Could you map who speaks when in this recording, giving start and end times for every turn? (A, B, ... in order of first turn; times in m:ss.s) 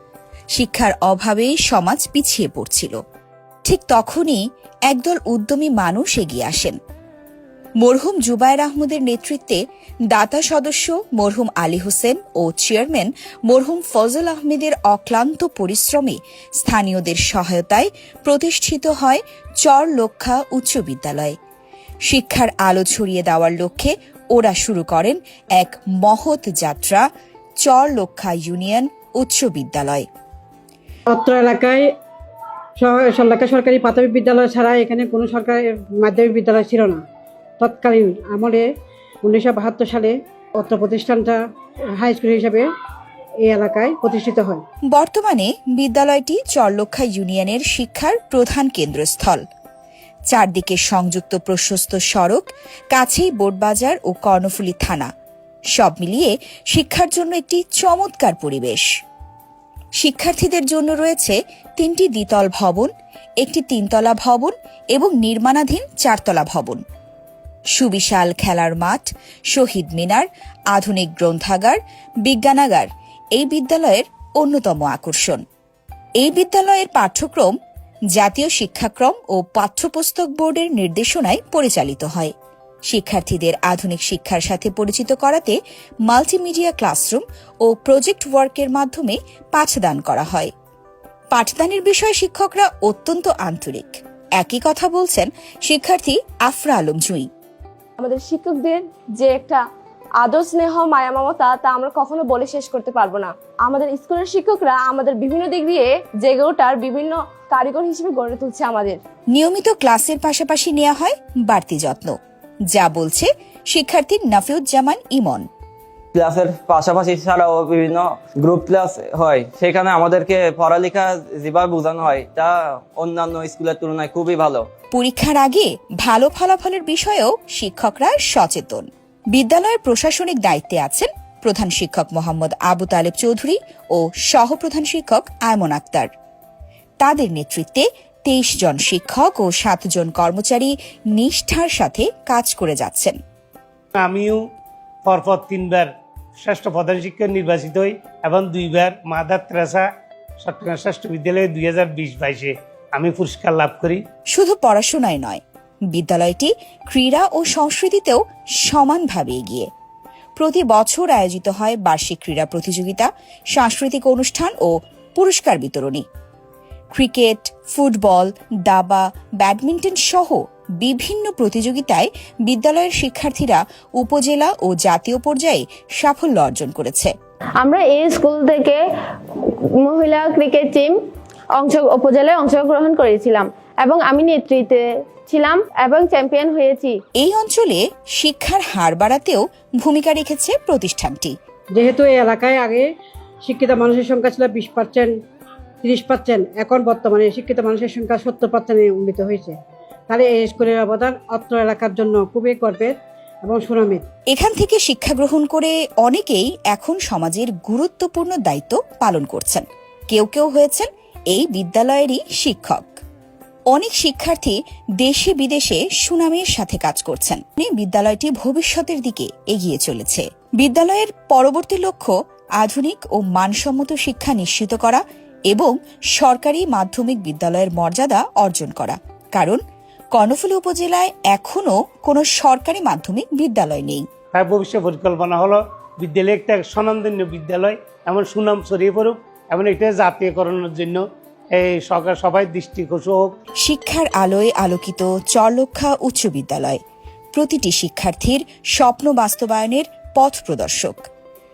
0:00.5-0:03.0 A
0:03.6-0:06.8 A
0:07.8-0:21.4 A
0:22.1-0:27.0 A
0:27.6-0:30.1 A
0:31.1-0:31.9 B
0:32.8-0:37.0 B
0:37.6-0:38.7 B
0:39.2-0:41.4 B
0:42.0-0:42.7 B
0:43.4-0:44.6 B
0:44.9-0:49.4 A
0:50.3-0:55.1 A
0:55.8-0:58.9 A
1:00.0-1:06.8 A
1:07.8-1:15.4 A
1:16.2-1:17.5 A
1:18.2-1:22.3 A
1:22.9-1:30.5 A
1:31.3-1:37.3 A
1:38.0-1:39.6 C
1:40.2-1:49.0 C
1:49.3-1:52.2 A
1:52.7-1:55.5 A
1:56.1-2:04.7 D
2:04.9-2:16.1 A
2:17.0-2:23.2 A
2:24.0-2:24.4 E
2:25.1-2:29.9 E
2:30.4-2:34.0 E
2:34.3-2:35.4 A
2:35.9-2:39.7 A
2:40.4-2:46.0 A
2:46.9-2:57.1 A
2:57.6-2:58.8 F
2:59.4-3:01.0 F
3:01.6-3:07.0 F
3:07.2-3:11.4 A
3:11.7-3:12.9 B
3:13.4-3:15.1 B
3:15.8-3:19.6 B
3:20.1-3:24.0 B
3:24.3-3:33.0 A
3:33.7-3:49.6 A
3:50.1-3:54.1 A
3:54.3-4:03.3 E
4:03.6-4:06.8 A
4:07.3-4:11.0 A